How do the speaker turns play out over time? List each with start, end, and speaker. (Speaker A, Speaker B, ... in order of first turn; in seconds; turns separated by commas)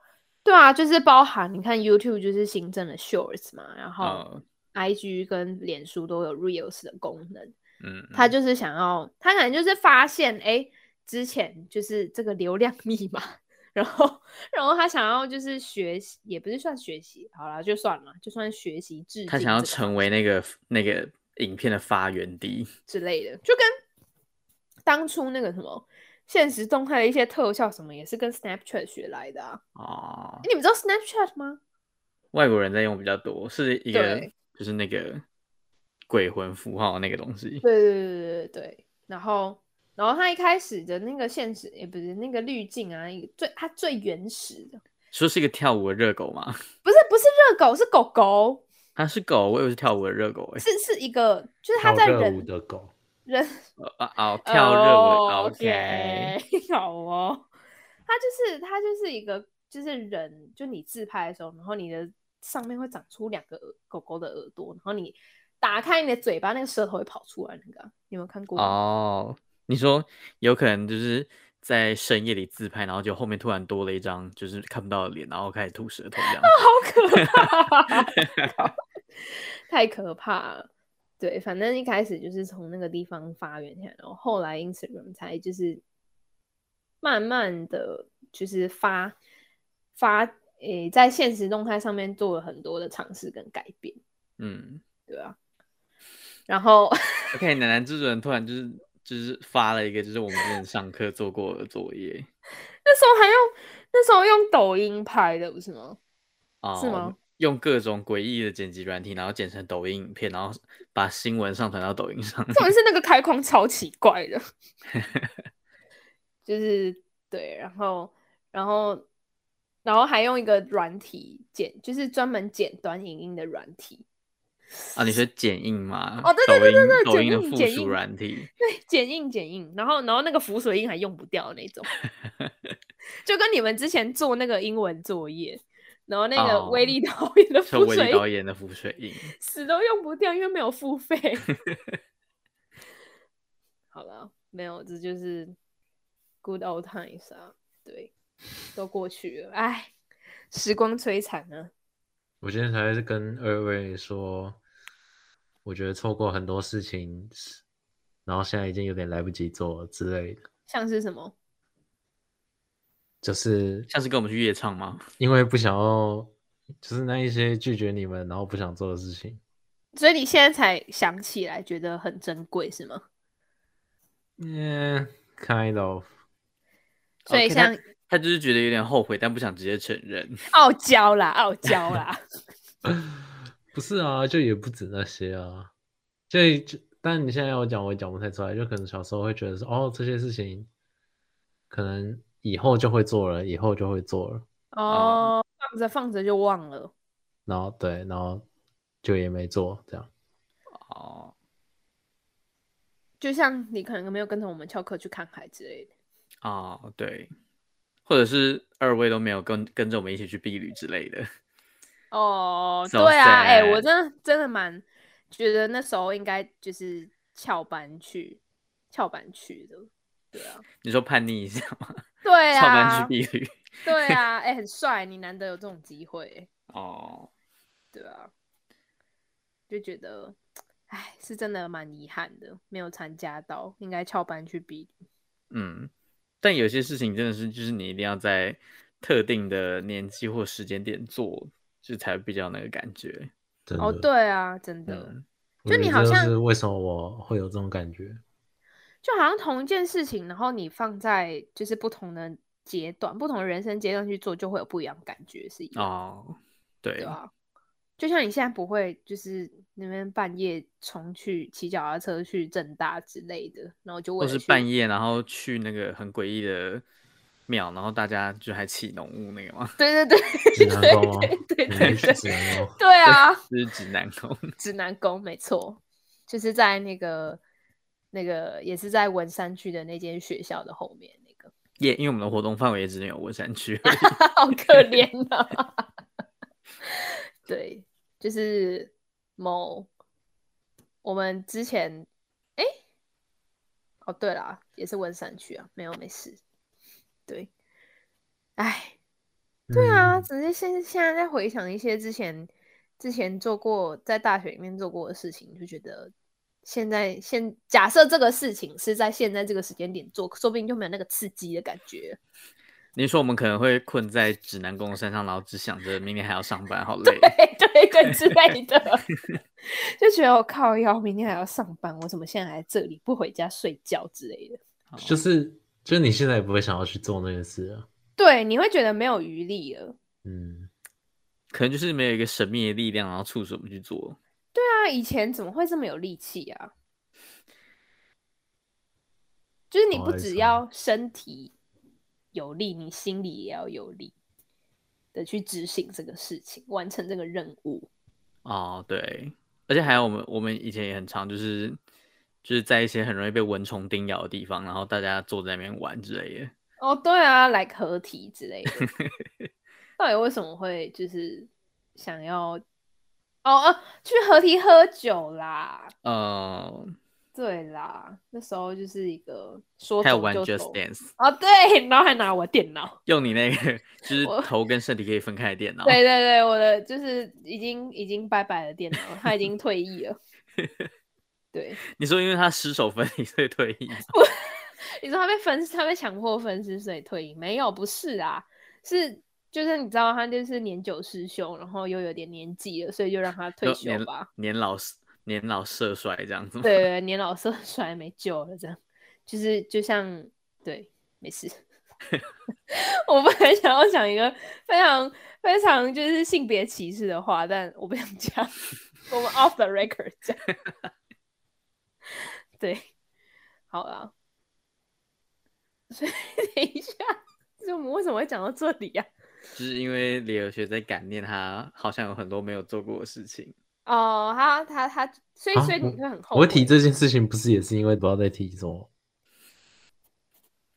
Speaker A: 0.4-7.5, Speaker B: 4.0-4.4, Speaker B: 7.8-8.3, Speaker A: 8.1-20.1, Speaker B: 19.3-22.7, Speaker A: 22.9-23.7, Speaker A: 24.9-29.6, Speaker B: 29.8-30.5, Speaker A: 30.4-31.6, Speaker B: 32.3-35.2, Speaker A: 33.9-34.3, Speaker B: 36.1-37.6, Speaker A: 37.6-44.8, Speaker B: 45.1-46.6, Speaker A: 46.9-48.6, Speaker B: 49.0-50.6, Speaker A: 50.6-52.5, Speaker C: 51.8-52.9, Speaker A: 53.3-53.7, Speaker B: 53.8-56.4, Speaker A: 54.4-57.5, Speaker A: 58.1-68.8, Speaker B: 68.6-76.6, Speaker A: 76.2-78.7, Speaker B: 77.2-77.4, Speaker A: 79.7-80.7, Speaker A: 81.2-85.8, Speaker A: 87.0-89.2, Speaker A: 90.0-94.0, Speaker B: 94.4-94.8, Speaker A: 95.1-95.4, Speaker A: 96.5-97.3, Speaker B: 97.3-102.3, Speaker A: 102.8-106.0, Speaker B: 106.6-112.7, Speaker A: 106.8-107.2, Speaker A: 112.5-114.4, Speaker B: 115.0-115.3, Speaker A: 116.5-119.0, Speaker A: 119.8-124.0, Speaker A: 124.9-125.2, Speaker B: 124.9-128.5, Speaker A: 126.2-128.0, Speaker A: 128.6-131.9, Speaker A: 133.2-138.2, Speaker B: 136.4-136.9, Speaker B: 137.7-139.3, Speaker A: 139.4-141.4, Speaker B: 141.5-141.8, Speaker A: 143.9-145.6, Speaker A: 146.4-148.1, Speaker A: 148.8-149.9, Speaker A: 150.5-151.7, Speaker C: 152.4-154.6, Speaker C: 155.6-157.6, Speaker C: 158.3-160.4, Speaker A: 160.7-161.3, Speaker C: 163.2-163.9, Speaker B: 163.9-165.0, Speaker C: 165.2-169.4, Speaker A: 169.9-173.0, Speaker C: 174.4-176.1, Speaker B: 177.3-180.4, Speaker A: 177.3-177.8, Speaker A: 180.5-182.2, Speaker C: 182.9-183.1, Speaker C: 183.7-185.7, Speaker C: 186.3-190.7, Speaker C: 191.7-194.4, Speaker A: 194.7-196.9, Speaker B: 194.9-195.3, Speaker C: 197.4-198.4, Speaker C: 199.0-200.1, Speaker B: 200.7-201.3, Speaker A: 203.2-205.9, Speaker B: 206.4-207.3, Speaker B: 208.1-211.3, Speaker A: 212.1-218.4, Speaker B: 212.9-213.8, Speaker A: 218.9-220.6, Speaker B: 220.8-222.0, Speaker A: 222.2-223.1, Speaker B: 222.5-224.2, Speaker A: 223.9-226.5, Speaker B: 226.7-227.3, Speaker A: 227.9-228.3, Speaker A: 229.7-230.4, Speaker A: 230.9-234.9, Speaker B: 235.5-235.9, Speaker B: 236.4-243.3, Speaker C: 243.7-244.1, Speaker A: 243.8-245.1, Speaker B: 244.9-245.2, Speaker C: 245.6-248.2, Speaker A: 245.7-246.3, Speaker A: 249.0-255.9, Speaker B: 255.8-257.2, Speaker A: 257.0-257.3, Speaker A: 258.0-264.6, Speaker B: 264.2-266.8, Speaker B: 267.5-269.8, Speaker A: 269.8-272.2, Speaker C: 270.6-272.8, Speaker B: 271.8-272.1, Speaker A: 272.8-273.4, Speaker B: 273.1-274.5, Speaker A: 274.6-277.4, Speaker A: 278.1-281.5, Speaker B: 281.8-285.0, Speaker A: 283.9-285.8, Speaker A: 287.5-289.9, Speaker A: 291.0-292.7, Speaker A: 294.1-296.4, Speaker A: 298.6-298.9, Speaker C: 299.7-300.3, Speaker A: 299.7-306.1, Speaker A: 306.6-312.2, Speaker B: 312.9-317.3, Speaker A: 317.0-319.1, Speaker A: 320.0-324.6, Speaker B: 324.9-325.2, Speaker C: 325.0-327.9, Speaker A: 328.2-329.9, Speaker C: 330.2-330.7, Speaker B: 331.5-334.2, Speaker A: 334.5-336.7, Speaker A: 339.7-341.5, Speaker C: 339.9-340.6, Speaker A: 342.3-344.1, Speaker A: 345.1-347.9, Speaker B: 348.4-351.8, Speaker B: 352.4-356.5, Speaker A: 356.8-358.9, Speaker B: 358.8-359.1, Speaker A: 360.0-362.6, Speaker A: 363.4-365.9, Speaker B: 366.1-366.9, Speaker A: 367.4-373.0, Speaker B: 370.0-371.1, Speaker B: 373.1-376.0, Speaker A: 374.2-374.5, Speaker A: 375.9-380.2, Speaker B: 380.6-380.9, Speaker A: 381.5-381.8, Speaker B: 382.0-384.1, Speaker A: 384.1-394.3, Speaker B: 393.6-396.8, Speaker A: 396.6-401.6, Speaker A: 402.7-408.6, Speaker A: 409.1-410.4, Speaker A: 412.6-412.8, Speaker A: 413.7-414.1, Speaker A: 415.9-419.1, Speaker B: 419.6-423.5, Speaker A: 423.9-426.7, Speaker C: 425.6-428.9